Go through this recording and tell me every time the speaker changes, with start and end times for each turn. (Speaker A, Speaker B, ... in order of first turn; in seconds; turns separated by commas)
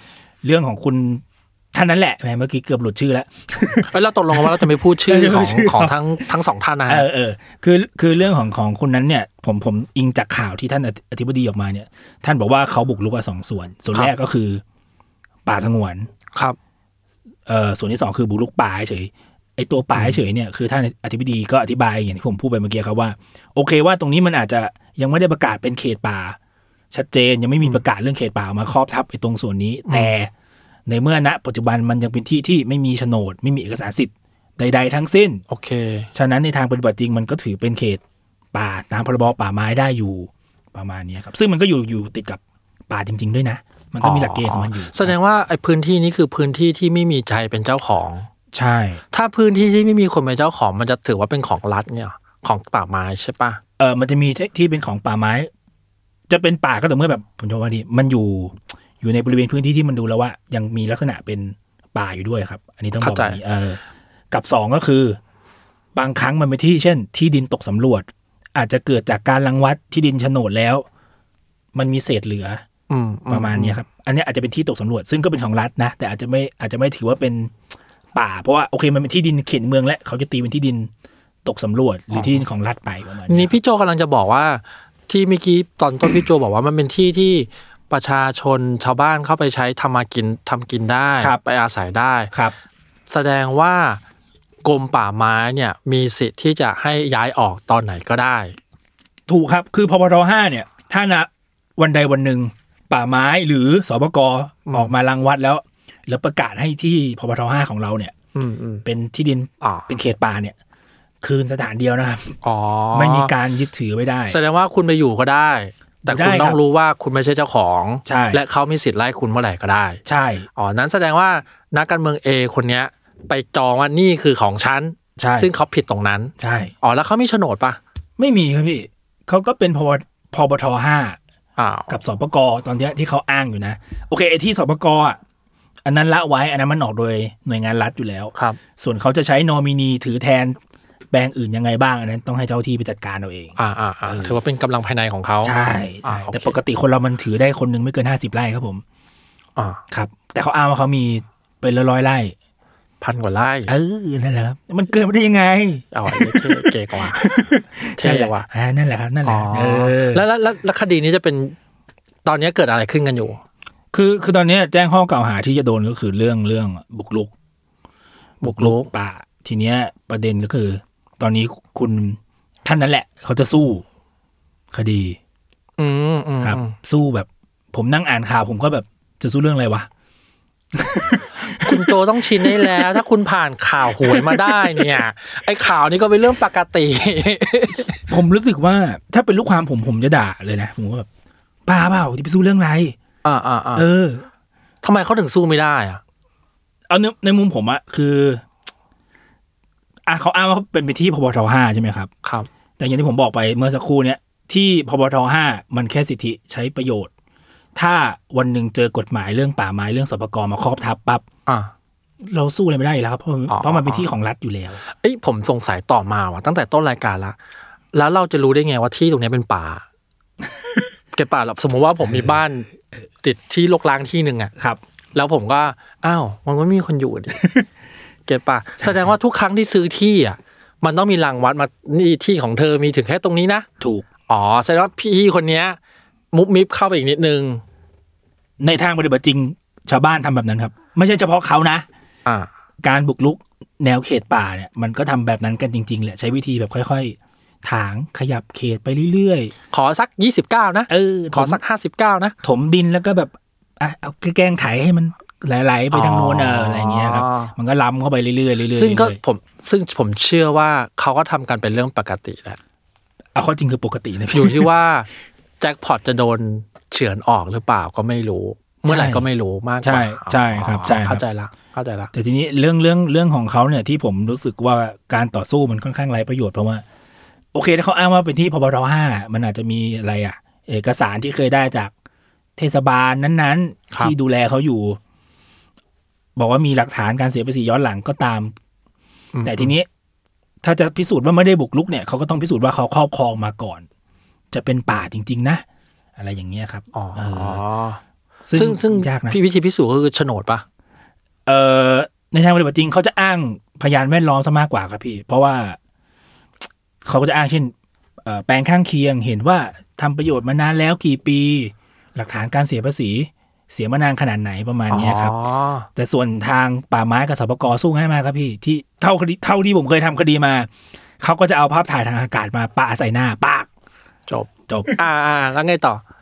Speaker A: 0.4-6.0, Speaker B: 3.9-7.1, Speaker A: 6.9-14.6, Speaker A: 15.4-16.1, Speaker A: 17.4-26.4, Speaker A: 26.9-30.3, Speaker B: 29.9-30.1, Speaker A: 30.9-35.4, Speaker B: 35.5-36.1, Speaker A: 36.1-38.0, Speaker A: 38.5-45.1, Speaker B: 44.0-48.3, Speaker A: 48.5-49.0, Speaker B: 49.1-53.6, Speaker A: 53.8-55.5, Speaker A: 56.3-63.8, Speaker B: 63.0-63.4, Speaker A: 64.3-65.2, Speaker A: 65.9-70.8, Speaker A: 71.7-72.6, Speaker B: 72.9-73.8, Speaker A: 73.3-77.5, Speaker A: 78.1-80.9, Speaker A: 81.4-83.5, Speaker B: 83.3-92.3, Speaker B: 93.1-94.0, Speaker B: 94.6-98.5, Speaker A: 99.3-108.1, Speaker B: 108.3-108.8, Speaker A: 108.8-110.5, Speaker B: 109.6-109.9, Speaker A: 111.2-112.4, Speaker B: 112.4-113.3, Speaker A: 112.9-114.4, Speaker B: 114.3-120.0, Speaker A: 116.0-116.6, Speaker A: 118.0-118.4, Speaker A: 120.0-120.5, Speaker B: 120.5-127.8, Speaker A: 125.2-125.5, Speaker A: 126.4-126.7, Speaker A: 128.2-131.2, Speaker B: 131.6-132.0, Speaker A: 131.9-135.2, Speaker A: 135.8-140.6, Speaker A: 141.1-144.4, Speaker B: 143.6-146.6, Speaker A: 145.4-148.8, Speaker B: 149.6-149.8, Speaker A: 149.9-152.3, Speaker B: 153.0-153.7, Speaker A: 153.7-160.2, Speaker B: 155.9-157.3, Speaker B: 158.0-158.5, Speaker B: 159.2-161.6, Speaker B: 162.2-163.4, Speaker A: 163.9-167.3, Speaker B: 168.4-168.9, Speaker A: 168.4-173.8, Speaker A: 174.7-175.2, Speaker B: 175.8-176.7, Speaker A: 176.4-179.9, Speaker A: 180.7-183.0, Speaker B: 181.5-188.1, Speaker A: 184.0-184.9, Speaker A: 188.1-191.1, Speaker A: 191.7-192.9, Speaker B: 193.2-193.8, Speaker A: 193.8-194.2, Speaker B: 194.8-196.0, Speaker A: 196.9-198.4, Speaker A: 200.1-202.1, Speaker A: 202.8-207.1, Speaker A: 207.7-211.2, Speaker A: 212.2-214.8, Speaker B: 213.5-214.0, Speaker B: 214.8-217.3, Speaker B: 217.9-219.8, Speaker B: 221.1-222.7, Speaker A: 222.0-222.4, Speaker B: 223.2-224.5, Speaker B: 225.1-227.4, Speaker A: 227.4-227.6, Speaker B: 228.3-233.7, Speaker A: 228.8-229.1, Speaker A: 233.8-234.1, Speaker B: 234.3-235.8, Speaker B: 236.3-237.6, Speaker A: 238.6-241.8, Speaker A: 242.8-249.5, Speaker B: 249.7-252.3, Speaker A: 250.9-251.6, Speaker A: 252.4-259.2, Speaker B: 255.9-257.5, Speaker B: 258.7-262.6, Speaker A: 263.3-264.7, Speaker B: 264.3-265.1, Speaker B: 265.6-272.1, Speaker A: 268.9-269.2, Speaker A: 269.8-271.2, Speaker A: 272.1-276.8, Speaker A: 277.5-281.9, Speaker A: 282.6-285.0, Speaker A: 286.4-288.5, Speaker B: 289.3-289.7, Speaker A: 289.4-289.9, Speaker A: 290.6-293.8, Speaker A: 294.5-295.6, Speaker A: 296.2-297.6, Speaker B: 296.9-298.0, Speaker A: 298.4-299.4, Speaker B: 298.5-300.6, Speaker A: 301.4-305.8, Speaker A: 307.0-315.3, Speaker B: 314.9-315.9, Speaker A: 315.9-320.7, Speaker A: 321.2-323.7, Speaker B: 324.3-326.0, Speaker A: 324.7-325.0